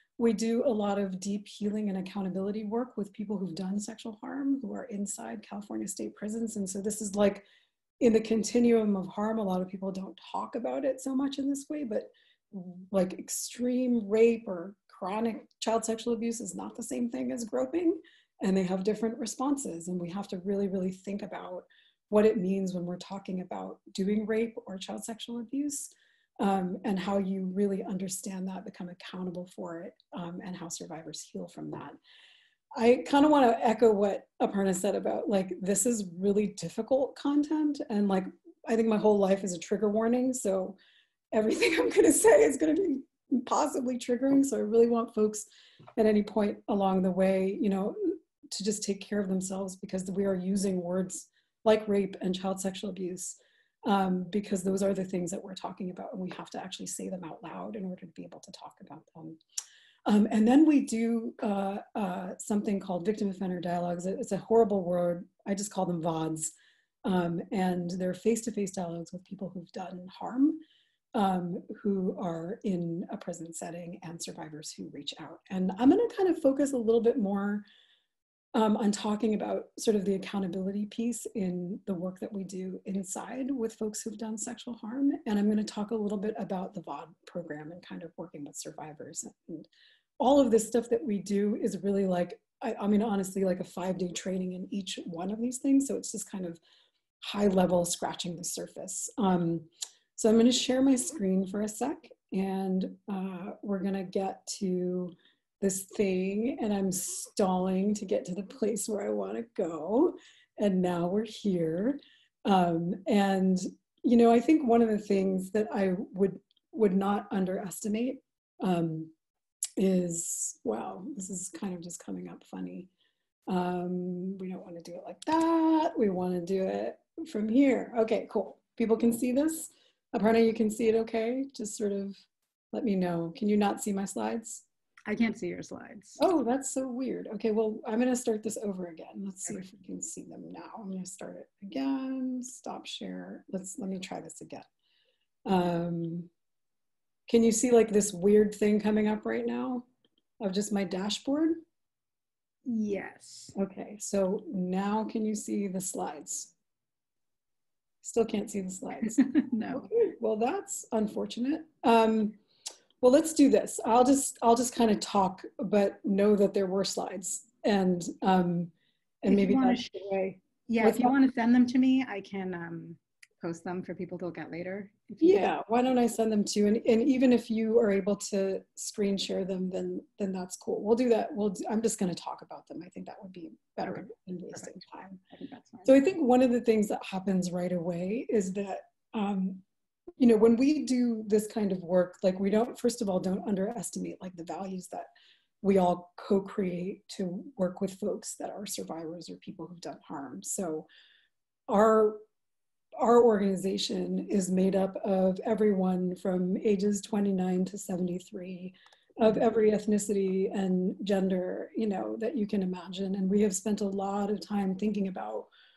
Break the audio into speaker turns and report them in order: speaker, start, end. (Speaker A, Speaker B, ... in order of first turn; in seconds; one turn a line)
Speaker A: 0.2-7.5
Speaker A: 8.0-32.0
Speaker A: 32.8-40.8
Speaker A: 41.3-59.4
Speaker A: 60.0-66.5
Speaker A: 67.0-70.6
Speaker A: 71.1-77.6
Speaker A: 78.5-89.7
Speaker A: 90.2-96.6
Speaker A: 97.2-119.1
Speaker A: 119.8-122.9
Speaker A: 123.5-134.6
Speaker B: 135.1-136.2
Speaker A: 136.2-144.7
Speaker A: 145.4-146.3
Speaker A: 147.3-149.8
Speaker A: 150.4-151.6
Speaker B: 152.7-153.5
Speaker A: 153.6-156.5
Speaker A: 158.0-159.2
Speaker B: 159.2-159.9
Speaker A: 159.7-162.4
Speaker A: 163.0-170.1
Speaker B: 169.2-175.5
Speaker A: 170.8-171.1
Speaker A: 175.2-185.2
Speaker B: 185.3-185.9
Speaker A: 185.8-189.6
Speaker A: 190.2-195.1
Speaker A: 195.6-200.8
Speaker A: 201.7-202.2
Speaker A: 203.0-215.5